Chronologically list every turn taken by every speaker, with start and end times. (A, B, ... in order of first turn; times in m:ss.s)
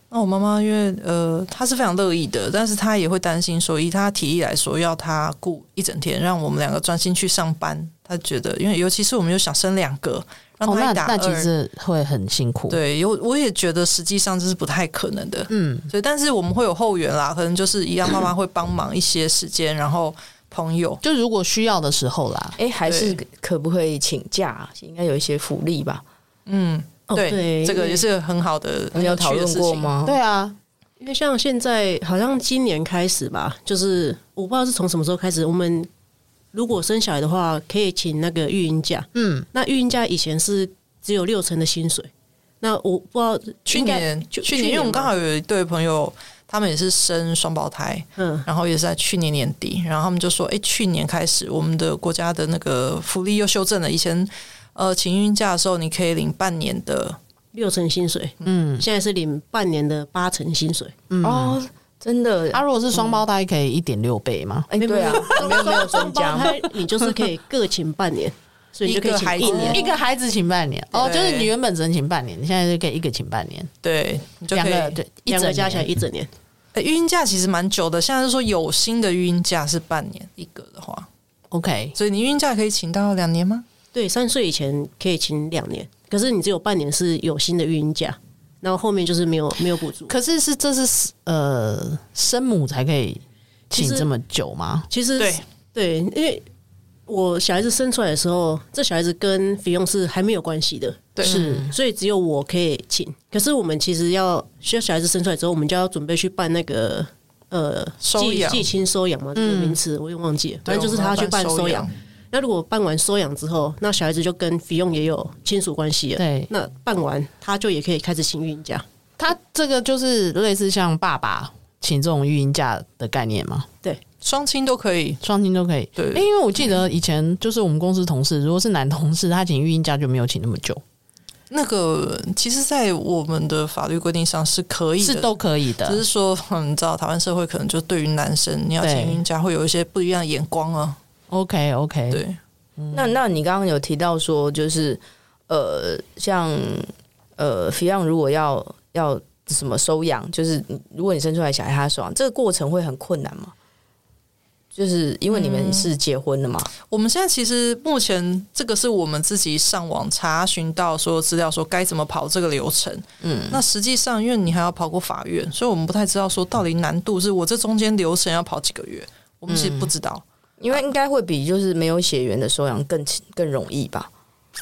0:00.1-0:11.5 A
0:10.6-0:12.8 B
0:12.7-0:21.0 A
0:15.5-0:15.9 B
0:21.0-0:22.6 B
0:22.6-0:26.0 C
0:22.9-0:23.2 A
0:26.5-0:29.9 A
0:27.1-0:28.0 D
0:28.9-0:30.2 C
0:30.0-0:30.6 B
0:31.0-0:35.9 D
0:36.5-0:42.1 D
0:39.1-0:39.5 B
0:42.6-0:45.1 D
0:43.7-0:57.2 A
0:48.2-0:48.4 D
0:57.5-1:00.9 D
0:58.4-0:58.8 B
1:01.1-1:01.6 B
1:01.2-1:03.2 C
1:02.5-1:05.6 B
1:04.7-1:06.5 C
1:04.8-1:09.9 D
1:08.8-1:09.8 A
1:09.2-1:09.8 C
1:09.6-1:13.7 B
1:10.9-1:11.5 A
1:13.8-1:15.0 A
1:14.5-1:15.9 B
1:15.3-1:16.3 D
1:16.7-1:21.1 A
1:21.5-1:22.0 B
1:22.0-1:23.6 A
1:23.9-1:30.1 D
1:30.1-1:34.9 B
1:33.7-1:34.1 D
1:34.9-1:36.4 D
1:37.1-1:58.8 D
1:41.2-1:41.4 A
1:41.2-1:41.7 B
1:48.0-1:48.6 A
1:49.3-1:49.8 B
1:50.6-1:51.9 A
1:56.2-1:56.5 B
1:59.2-2:03.7 B
2:04.2-2:05.2 A
2:05.2-2:10.8 B
2:06.0-2:06.2 A
2:11.5-2:21.0 A
2:15.0-2:16.0 B
2:18.8-2:19.2 B
2:21.3-2:22.2 B
2:22.1-2:22.4 A
2:22.8-2:23.1 B
2:22.9-2:33.5 C
2:34.7-2:36.7 C
2:35.3-2:35.9 A
2:36.8-2:50.8 A
2:43.2-2:43.6 C
2:49.5-2:49.9 C
2:50.6-2:54.1 C